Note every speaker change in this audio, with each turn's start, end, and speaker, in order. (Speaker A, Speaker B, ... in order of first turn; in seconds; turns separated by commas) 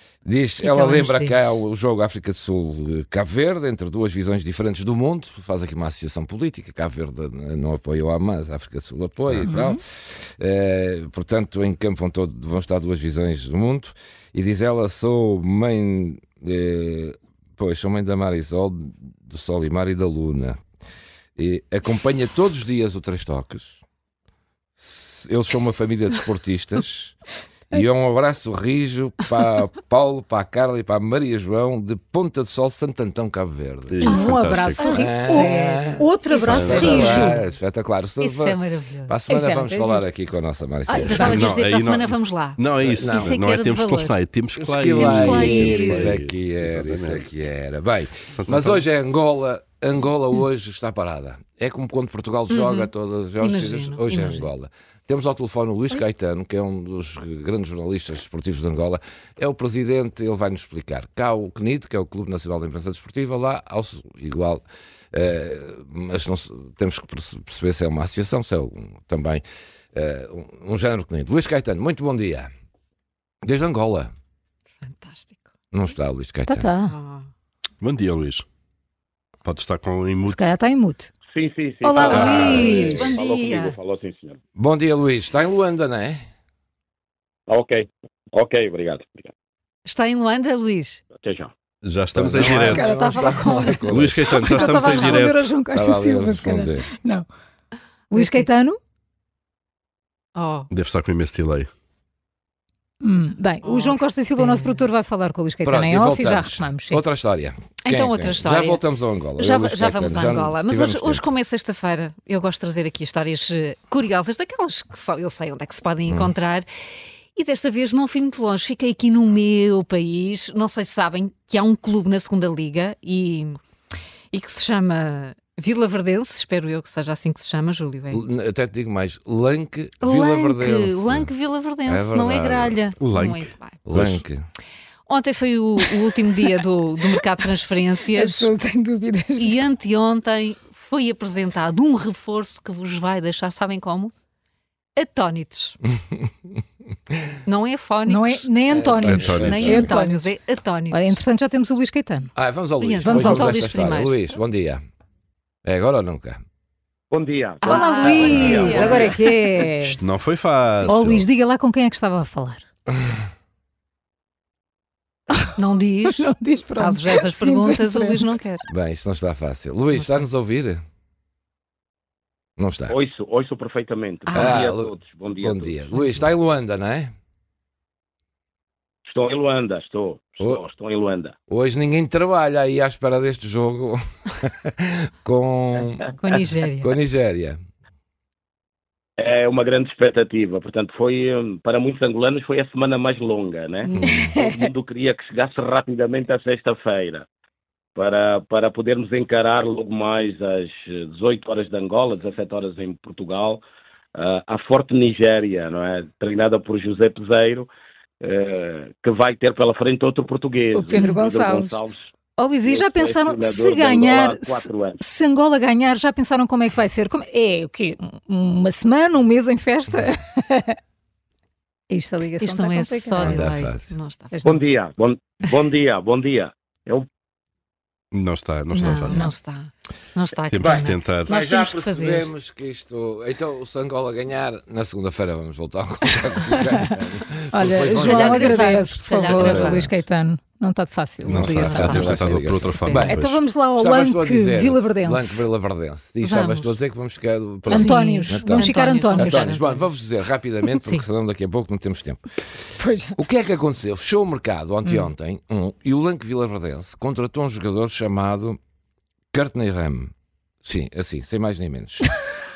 Speaker A: 0.2-20.6, Speaker B: 0.6-1.5, Speaker C: 9.4-9.8, Speaker A: 21.4-23.8, Speaker A: 24.8-27.2, Speaker A: 27.7-34.1, Speaker D: 33.9-35.0, Speaker C: 34.0-37.4, Speaker B: 34.8-35.5, Speaker A: 34.9-41.5, Speaker D: 36.4-37.3, Speaker B: 38.2-39.1, Speaker C: 39.3-40.0, Speaker C: 40.9-41.4, Speaker B: 40.9-44.2, Speaker D: 41.2-47.2, Speaker A: 42.8-43.4, Speaker A: 44.5-72.5, Speaker B: 44.9-46.1, Speaker D: 48.3-48.8, Speaker B: 52.5-54.5, Speaker A: 73.4-74.1, Speaker B: 74.8-75.4, Speaker A: 75.7-76.7, Speaker C: 76.5-76.9, Speaker B: 76.9-77.3, Speaker D: 77.8-78.4, Speaker D: 79.4-80.5, Speaker C: 80.3-81.1, Speaker E: 81.3-84.4, Speaker C: 81.8-83.1, Speaker B: 82.0-83.8, Speaker D: 82.1-82.5, Speaker A: 82.3-83.0, Speaker A: 84.5-86.2, Speaker E: 87.5-89.3, Speaker B: 89.8-91.0, Speaker E: 91.1-91.5, Speaker D: 91.8-92.9, Speaker A: 92.1-94.3, Speaker C: 92.4-93.9, Speaker D: 93.9-95.5, Speaker C: 94.4-97.3, Speaker B: 94.6-95.2, Speaker A: 95.7-96.9, Speaker C: 98.1-98.8, Speaker B: 98.1-98.5, Speaker B: 100.3-100.7, Speaker D: 100.7-101.7, Speaker C: 103.0-107.0, Speaker B: 103.6-104.8, Speaker A: 105.6-111.2, Speaker B: 107.8-108.8, Speaker B: 109.3-116.7, Speaker A: 116.1-116.3, Speaker B: 117.3-123.6, Speaker B: 124.3-128.2, Speaker A: 128.1-131.3, Speaker B: 130.0-133.8, Speaker A: 131.8-132.8, Speaker D: 133.0-134.2, Speaker A: 133.8-134.4, Speaker B: 135.1-138.5, Speaker C: 138.1-139.5, Speaker B: 139.3-144.1, Speaker B: 144.9-145.8, Speaker B: 147.4-148.4, Speaker C: 148.1-150.3, Speaker A: 148.7-149.9, Speaker D: 149.0-149.7, Speaker B: 149.2-151.2, Speaker C: 150.9-152.3, Speaker A: 152.3-154.8, Speaker B: 152.8-154.2, Speaker C: 153.1-153.5, Speaker A: 155.6-156.4, Speaker E: 157.1-159.1, Speaker B: 157.6-159.2, Speaker C: 157.6-160.0, Speaker A: 158.2-159.0, Speaker D: 159.7-161.2, Speaker C: 160.8-162.6, Speaker B: 165.6-168.6, Speaker C: 166.1-168.2, Speaker A: 168.7-170.8, Speaker B: 169.9-170.2, Speaker A: 172.6-172.9, Speaker E: 172.9-175.8, Speaker B: 174.3-174.6, Speaker A: 174.3-177.1, Speaker E: 179.1-181.3, Speaker A: 181.5-186.1, Speaker B: 186.2-187.0, Speaker A: 186.8-187.6, Speaker E: 189.2-197.2, Speaker A: 194.0-194.3, Speaker C: 194.0-194.7, Speaker E: 197.9-203.6, Speaker E: 204.1-207.7, Speaker E: 208.2-212.1, Speaker C: 210.8-211.8, Speaker C: 212.4-220.8, Speaker E: 212.6-215.0, Speaker C: 221.9-223.4, Speaker B: 222.4-224.3, Speaker A: 223.2-223.9, Speaker C: 224.3-224.6, Speaker E: 224.4-227.1, Speaker D: 228.1-229.3, Speaker B: 228.7-232.3, Speaker D: 230.5-231.4, Speaker A: 230.6-238.7, Speaker C: 237.5-242.2, Speaker B: 238.0-239.9, Speaker A: 239.2-239.9, Speaker A: 241.3-243.2, Speaker D: 241.3-243.4, Speaker B: 241.6-242.1, Speaker C: 242.9-245.5, Speaker A: 243.8-252.2, Speaker B: 246.2-246.8, Speaker C: 247.7-249.6, Speaker B: 247.7-250.0, Speaker B: 250.8-251.0, Speaker C: 252.8-253.2, Speaker A: 253.2-258.6, Speaker A: 259.3-260.1, Speaker A: 260.6-262.1